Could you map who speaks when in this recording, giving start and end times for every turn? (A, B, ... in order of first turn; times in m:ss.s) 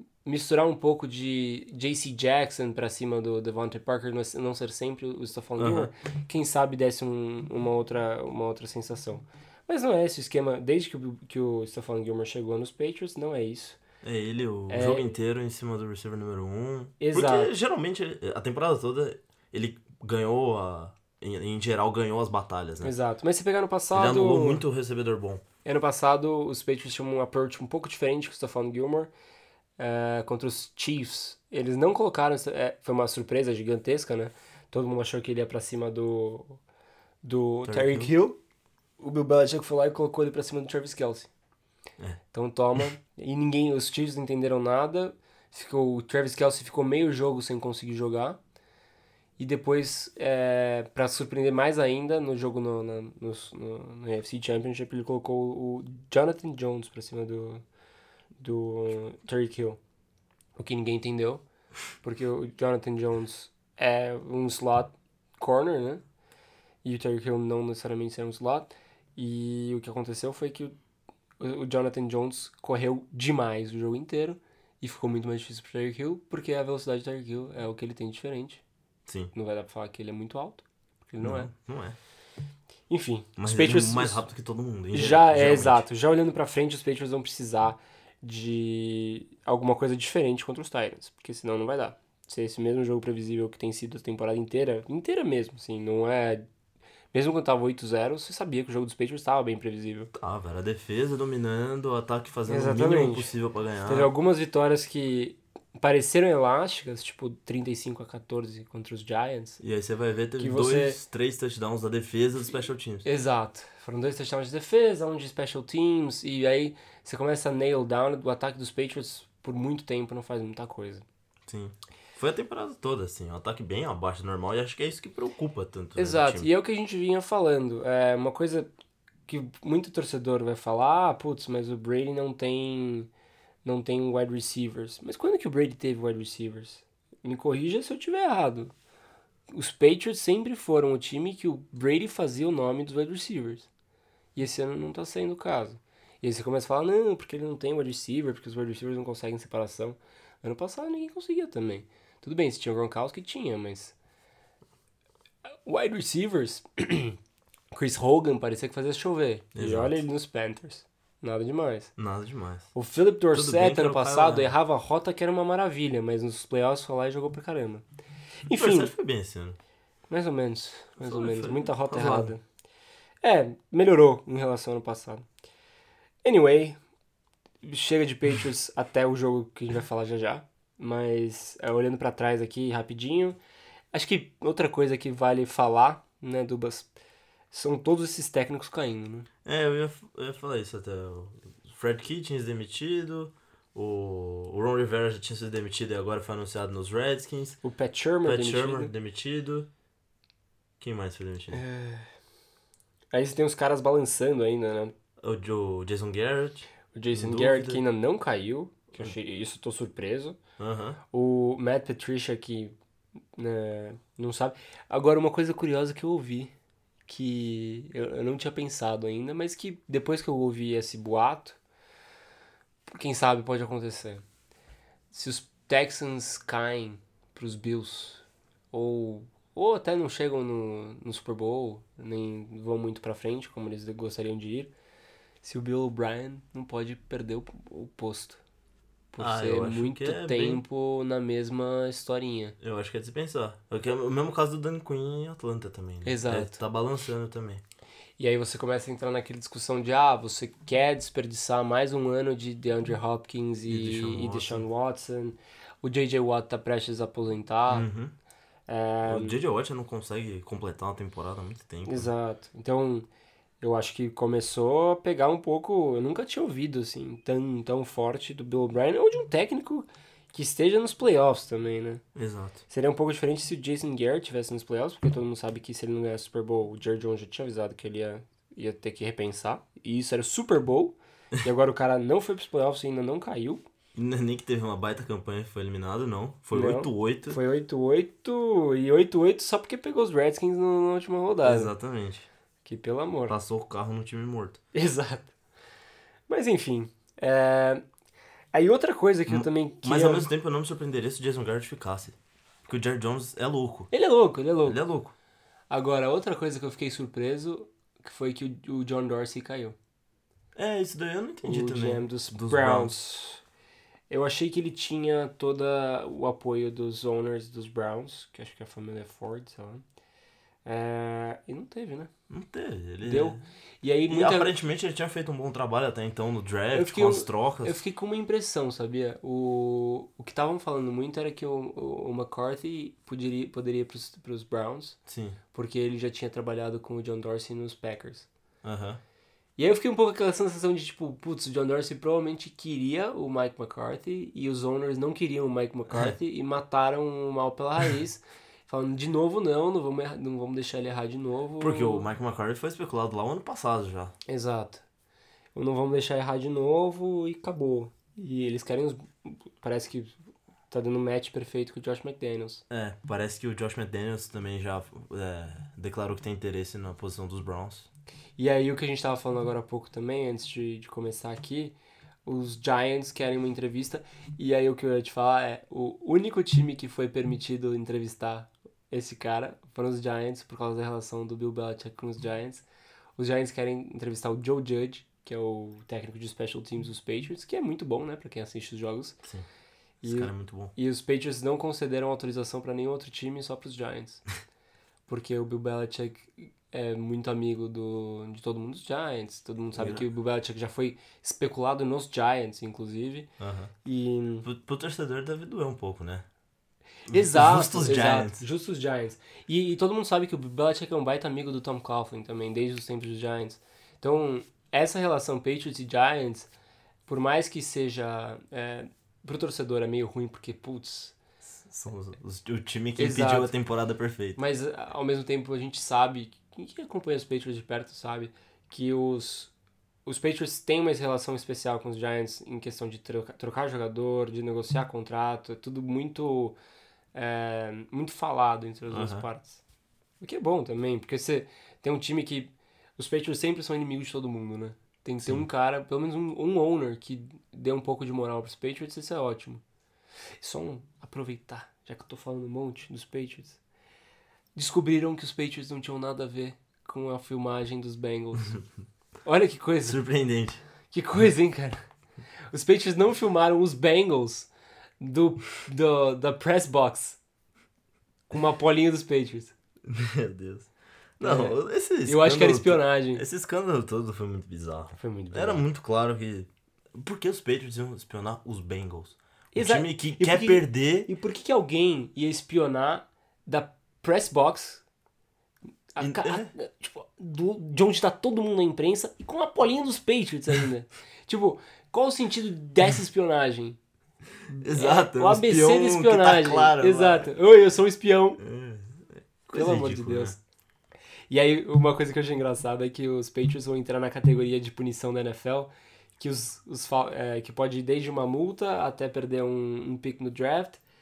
0:00.2-0:13.8 A
0:05.6-0:05.9 B
0:14.0-0:22.9 B
0:14.7-0:15.1 A
0:17.0-0:17.5 A
0:22.8-0:24.6 A
0:23.9-0:25.4 B
0:25.6-0:29.1 A
0:29.8-0:36.6 A
0:37.2-0:38.4 A
0:37.7-0:38.1 B
0:39.0-0:41.3 A
0:42.3-0:48.4 A
0:49.4-0:57.6 A
0:58.4-0:59.8 A
1:00.6-1:01.4 A
1:02.0-1:06.0 A
1:06.8-1:10.8 A
1:11.4-1:18.6 A
1:19.1-1:19.3 B
1:19.3-1:21.5 A
1:21.2-1:22.0 B
1:22.9-1:24.2 A
1:23.4-1:25.9 B
1:24.9-1:36.4 A
1:37.1-1:40.1 A
1:40.1-1:44.1 B
1:42.5-1:43.3 A
1:43.8-1:49.6 A
1:49.6-1:53.0 B
1:50.4-1:51.0 A
1:53.0-2:01.0 A
2:01.5-2:06.5 B
2:06.0-2:08.7 A
2:09.3-2:13.1 A
2:13.6-2:18.7 A
2:19.5-2:23.7 A
2:24.4-2:34.0 A
2:35.7-2:37.2 A
2:37.7-2:41.9 A
2:39.6-2:40.0 B
2:42.0-2:42.7 B
2:42.7-2:47.8 A
2:43.3-2:44.5 B
2:48.4-2:48.9 A
2:48.6-2:49.6 B
2:50.1-2:52.4 A
2:51.0-2:52.3 B
2:53.2-2:55.3 A
2:56.2-2:56.8 A
2:57.6-3:03.4 A
3:03.9-3:06.9 A
3:07.5-3:09.3 A
3:09.4-3:17.6 B
3:17.6-3:18.9 A
3:18.2-3:19.7 B
3:20.8-3:21.6 B
3:21.5-3:22.1 A
3:23.1-3:24.9 A
3:25.2-3:27.8 B
3:26.9-3:30.4 A
3:30.6-3:31.0 B
3:31.1-3:32.8 A
3:33.4-3:36.5 A
3:37.1-3:41.6 A
3:42.9-3:44.2 A
3:45.1-3:54.7 A
3:55.4-3:58.4 A
3:59.1-4:02.6 A
3:59.2-4:00.6 B
4:02.6-4:07.6 B
4:06.0-4:06.6 A
4:08.2-4:17.9 A
4:13.7-4:14.7 B
4:17.7-4:18.1 B
4:18.7-4:19.4 A
4:19.1-4:22.1 B
4:21.9-4:23.1 A
4:23.6-4:32.0 A
4:32.2-4:32.6 B
4:32.7-4:43.7 A
4:44.0-4:47.4 B
4:46.5-4:51.7 A
4:51.4-4:52.3 B
4:52.6-4:53.4 A
4:53.3-4:54.6 B
4:54.7-4:55.3 A
4:56.3-4:57.8 A
4:58.5-5:00.3 A
4:59.3-5:03.9 B
5:03.9-5:04.8 A
5:04.6-5:05.1 B
5:05.7-5:09.8 A
5:10.6-5:12.9 B
5:11.4-5:13.4 A
5:14.1-5:19.8 A
5:20.6-5:22.1 A
5:22.3-5:23.4 B
5:23.0-5:24.5 A
5:24.1-5:27.8 B
5:26.7-5:35.0 A
5:35.1-5:35.4 B
5:35.5-5:38.3 A
5:38.6-5:39.0 B
5:39.6-5:52.1 A
5:45.9-5:46.2 B
5:51.6-5:54.1 B
5:54.3-5:54.8 A
5:55.6-6:00.2 A
6:00.7-6:02.6 A
6:02.7-6:07.9 B
6:08.4-6:22.6 A
6:23.2-6:29.2 A
6:30.0-6:34.2 A
6:30.0-6:30.7 B
6:35.1-6:43.3 A
6:39.8-6:40.0 B
6:43.4-6:43.7 B
6:43.8-6:44.5 A
6:44.4-6:46.3 B
6:47.1-6:48.4 B
6:47.1-6:56.5 A
6:57.1-7:01.2 A
7:01.6-7:04.4 B
7:03.0-7:03.5 A
7:04.4-7:09.5 A
7:10.1-7:16.6 A
7:17.1-7:19.6 A
7:18.9-7:19.3 B
7:20.2-7:29.6 A
7:30.4-7:33.6 A
7:34.6-7:38.6 A
7:39.2-7:40.0 A
7:39.9-7:40.6 B
7:40.9-7:41.8 A
7:42.5-7:44.5 A
7:45.0-7:47.2 A
7:48.3-7:49.5 A
7:49.9-8:01.1 B
7:51.2-7:53.2 A
7:55.0-7:55.6 A
7:59.5-8:04.8 A
8:06.0-8:13.8 A
8:06.0-8:06.5 B
8:14.5-8:18.4 A
8:14.6-8:17.3 B
8:18.4-8:20.4 B
8:19.5-8:20.4 A
8:21.3-8:30.8 A